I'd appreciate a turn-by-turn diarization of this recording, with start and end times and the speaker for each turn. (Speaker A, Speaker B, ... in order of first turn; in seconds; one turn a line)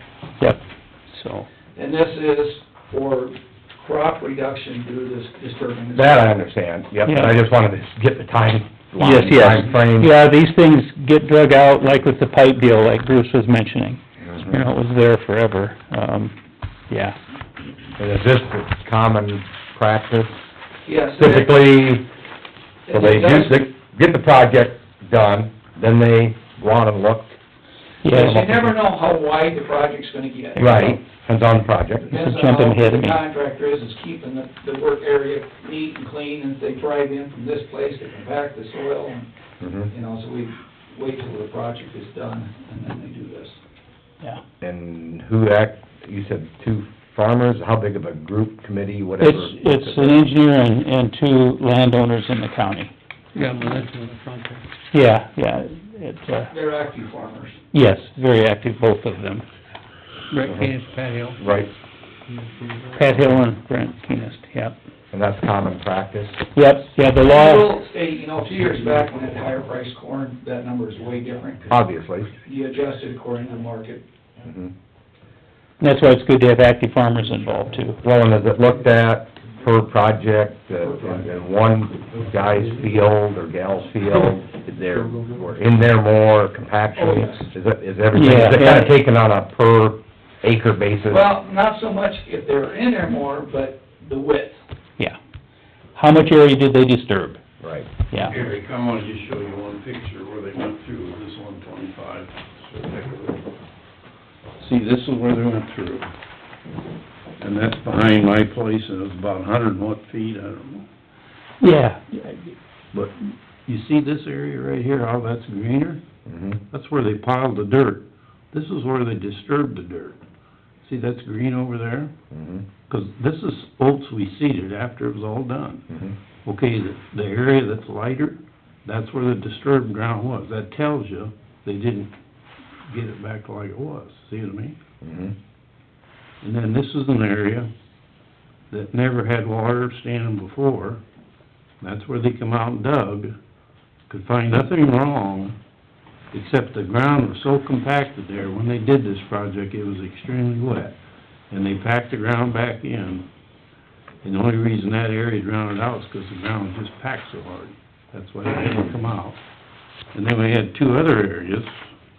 Speaker A: 0.4-1.5
Speaker B: 1.7-6.3
Speaker C: 6.0-10.1
Speaker A: 7.0-7.3
Speaker A: 9.0-16.3
Speaker A: 16.9-17.2
Speaker C: 18.0-20.3
Speaker B: 20.9-21.6
Speaker C: 21.2-22.1
Speaker B: 22.9-23.6
Speaker C: 22.9-27.4
Speaker A: 28.0-28.4
Speaker B: 28.1-30.7
Speaker C: 28.1-28.8
Speaker A: 30.5-31.0
Speaker C: 30.6-32.1
Speaker B: 32.0-39.3
Speaker A: 32.1-33.2
Speaker C: 39.6-39.9
Speaker B: 39.9-43.6
Speaker C: 44.6-50.2
Speaker A: 49.2-52.9
Speaker D: 53.3-54.6
Speaker A: 54.9-56.5
Speaker B: 56.5-57.6
Speaker A: 57.7-59.5
Speaker D: 60.3-61.4
Speaker C: 60.4-60.7
Speaker C: 61.4-61.7
Speaker D: 62.3-63.2
Speaker A: 62.9-64.8
Speaker C: 65.1-66.4
Speaker A: 66.5-67.7
Speaker B: 67.2-71.7
Speaker C: 71.7-72.3
Speaker B: 72.4-74.0
Speaker C: 74.4-74.7
Speaker A: 75.8-78.0
Speaker C: 78.0-91.2
Speaker B: 87.0-87.5
Speaker A: 88.1-89.0
Speaker B: 91.1-94.6
Speaker A: 95.9-97.4
Speaker C: 97.6-97.9
Speaker E: 98.3-103.4
Speaker E: 104.6-106.1
Speaker E: 107.4-110.9
Speaker A: 111.6-112.5
Speaker E: 112.9-116.0
Speaker C: 116.2-116.6
Speaker E: 116.7-120.2
Speaker E: 120.8-122.1
Speaker C: 122.3-122.7
Speaker E: 122.9-125.8
Speaker C: 125.9-126.2
Speaker E: 126.4-132.1
Speaker E: 132.9-134.8
Speaker C: 135.0-135.3
Speaker E: 136.4-137.7
Speaker E: 138.7-141.0
Speaker E: 141.8-143.3
Speaker E: 144.1-145.6
Speaker E: 146.3-151.0
Speaker E: 151.5-153.3
Speaker E: 154.2-159.4
Speaker E: 160.1-161.8